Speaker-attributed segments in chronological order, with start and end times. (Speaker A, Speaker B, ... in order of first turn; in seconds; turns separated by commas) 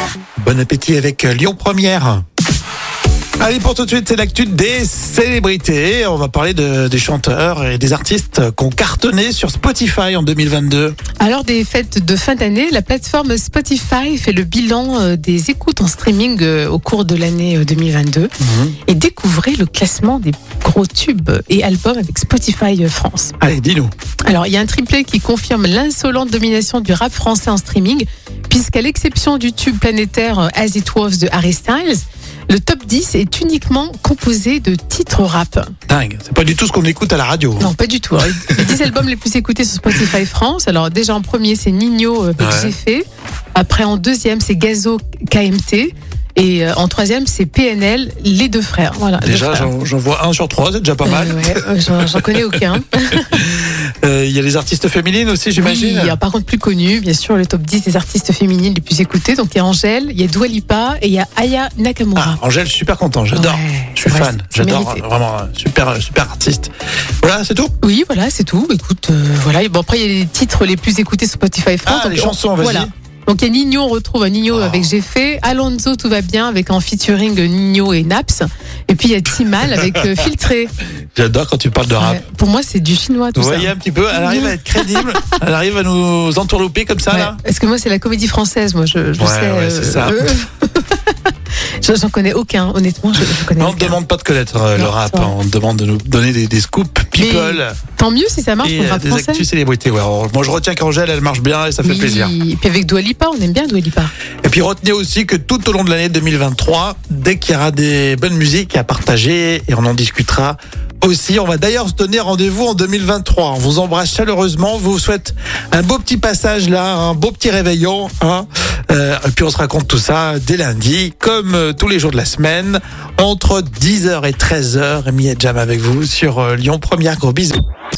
Speaker A: 0.4-2.2, Speaker A: 3.4-11.0, Speaker B: 11.2-18.3, Speaker A: 18.4-18.8, Speaker B: 18.9-23.3, Speaker A: 23.4-23.9, Speaker B: 24.3-35.7, Speaker A: 35.9-37.7, Speaker B: 37.6-43.0, Speaker A: 38.5-38.8, Speaker A: 42.4-42.7, Speaker B: 43.5-49.7, Speaker A: 49.2-52.6, Speaker B: 51.0-53.4, Speaker A: 53.2-56.1, Speaker B: 55.6-62.4, Speaker A: 62.1-66.7, Speaker B: 63.3-65.0, Speaker A: 67.2-67.7, Speaker B: 67.8-80.7, Speaker A: 71.8-72.9, Speaker A: 74.5-74.9, Speaker A: 81.1-82.2, Speaker B: 82.0-85.3, Speaker A: 83.3-87.4, Speaker B: 87.1-91.0, Speaker A: 89.2-90.3, Speaker B: 91.8-94.0, Speaker A: 93.6-97.8, Speaker B: 94.7-95.3, Speaker B: 97.2-99.5, Speaker A: 98.6-102.3, Speaker B: 101.8-104.1, Speaker A: 104.4-127.6